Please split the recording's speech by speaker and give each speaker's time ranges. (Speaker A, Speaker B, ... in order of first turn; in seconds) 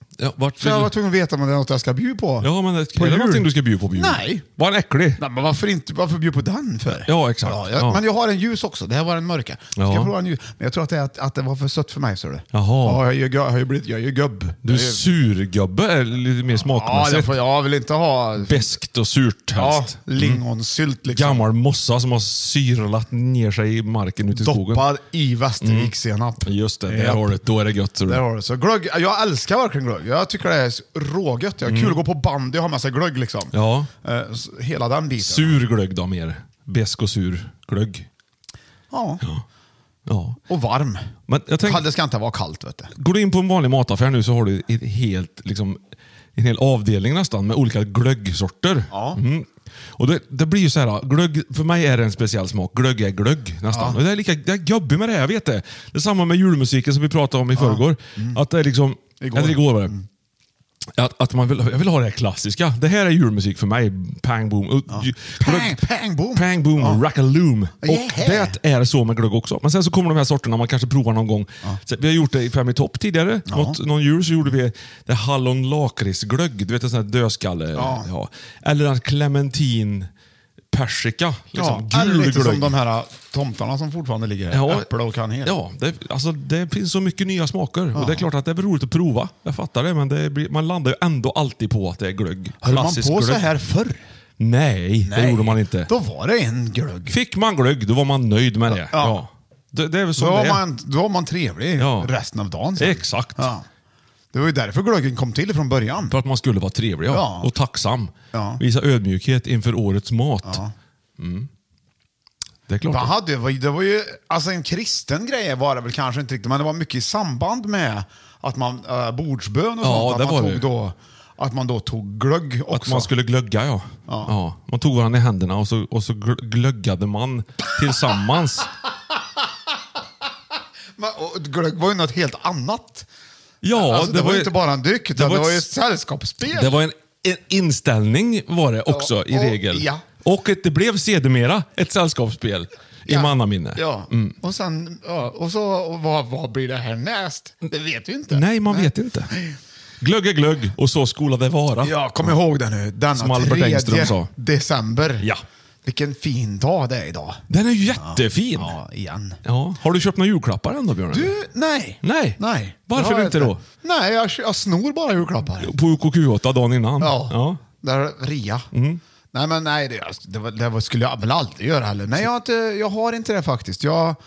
Speaker A: 0.2-0.9, 2.4-5.2, 7.0-8.0, 9.8-10.1, 12.5-13.0, 14.6-17.4, 18.4-20.4, 21.1-24.9, 25.6-25.9, 26.4-28.2, 31.6-32.0, 33.5-33.9, 35.2-38.1, 40.1-40.4, 41.3-41.8, 43.0-45.8, 46.4-59.9, 61.0-65.8, 66.3-80.1, 80.7-82.7, 84.5-84.9, 85.4-93.5, 94.4-95.9, 97.1-100.6, 101.8-102.1, 102.8-103.5, 106.1-110.6, 111.2-111.5, 112.7-113.1, 119.8-120.7, 122.7-128.7, 133.6-134.5, 135.1-135.7, 136.5-144.3, 148.3-149.3, 150.0-152.3, 153.1-154.3, 157.5-158.8, 159.4-161.3, 162.0-163.6, 165.6-167.6, 168.7-169.0
Speaker B: 0.6-4.5, 5.2-15.0, 16.6-18.7, 19.6-21.4, 24.3-27.3, 28.1-35.6, 38.9-39.2, 40.5-41.1, 41.6-42.9, 48.9-49.2, 53.7-54.0, 57.5-58.4, 59.2-60.0, 64.9-67.0, 67.8-68.6, 73.5-73.8, 77.7-78.1, 81.5-85.5, 87.9-88.3, 92.6-94.0, 95.0-97.2, 98.7-99.2, 100.2-103.7, 104.3-106.1, 107.1-107.5, 108.3-108.6, 110.4-110.7, 112.9-123.1, 124.1-124.3, 131.0-133.1, 133.7-136.8, 138.9-140.0, 143.1-149.6, 151.8-155.3, 155.8-157.4, 158.0-159.4, 161.1-165.7, 167.0-168.7, 169.3-174.2